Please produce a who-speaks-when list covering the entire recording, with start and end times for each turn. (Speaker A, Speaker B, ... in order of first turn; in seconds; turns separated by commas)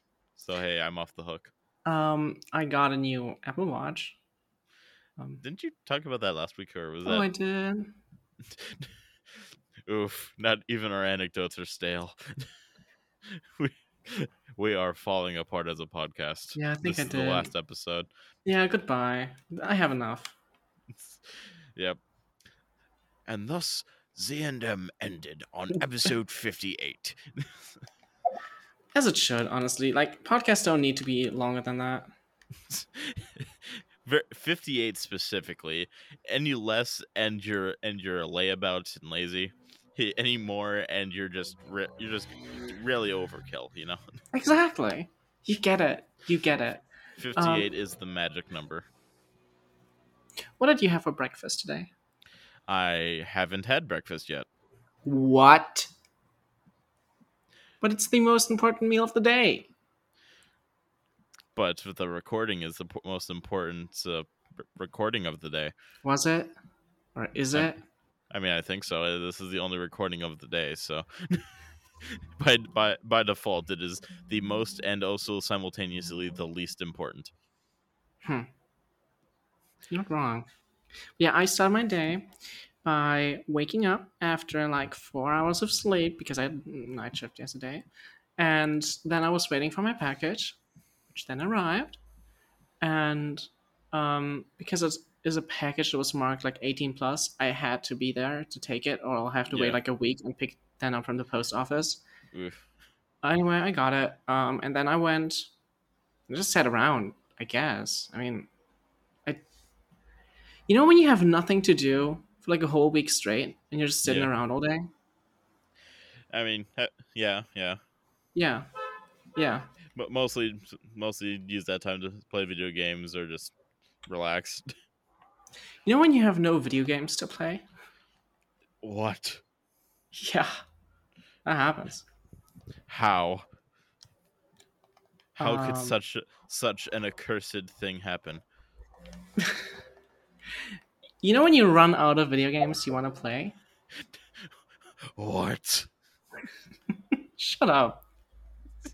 Speaker A: 0.4-1.5, Speaker B: 1.9-4.2, Speaker A: 5.4-7.3, Speaker B: 7.0-7.9, Speaker A: 8.5-12.5, Speaker A: 13.3-18.1, Speaker B: 16.6-17.5, Speaker B: 18.5-20.4, Speaker A: 20.9-22.0, Speaker A: 23.3-27.8, Speaker B: 28.9-32.1, Speaker A: 32.7-44.0, Speaker B: 44.3-46.8, Speaker A: 47.2-48.9, Speaker B: 47.4-47.7, Speaker B: 50.6-51.9, Speaker A: 52.7-54.5, Speaker B: 55.0-55.9, Speaker B: 57.8-59.7, Speaker A: 61.5-65.7, Speaker B: 66.0-66.5, Speaker B: 67.2-67.8, Speaker A: 68.3-77.3, Speaker B: 79.9-80.5, Speaker B: 81.2-82.3, Speaker B: 82.8-87.9, Speaker B: 88.4-90.6, Speaker B: 91.1-92.0, Speaker B: 92.8-102.0, Speaker A: 99.5-99.8, Speaker A: 102.3-102.7, Speaker B: 103.2-105.5, Speaker B: 106.3-108.5, Speaker B: 110.7-114.9, Speaker A: 114.0-114.3, Speaker A: 116.3-117.8, Speaker B: 118.3-118.7, Speaker B: 119.4-119.7, Speaker A: 120.0-123.5, Speaker A: 124.1-124.7, Speaker B: 125.9-127.6, Speaker A: 128.8-129.4, Speaker B: 130.1-130.6, Speaker B: 131.4-132.1, Speaker A: 132.9-133.4, Speaker A: 135.4-138.4, Speaker B: 135.4-136.0, Speaker B: 139.4-139.7, Speaker B: 141.2-143.6, Speaker A: 145.2-145.9, Speaker B: 147.4-148.0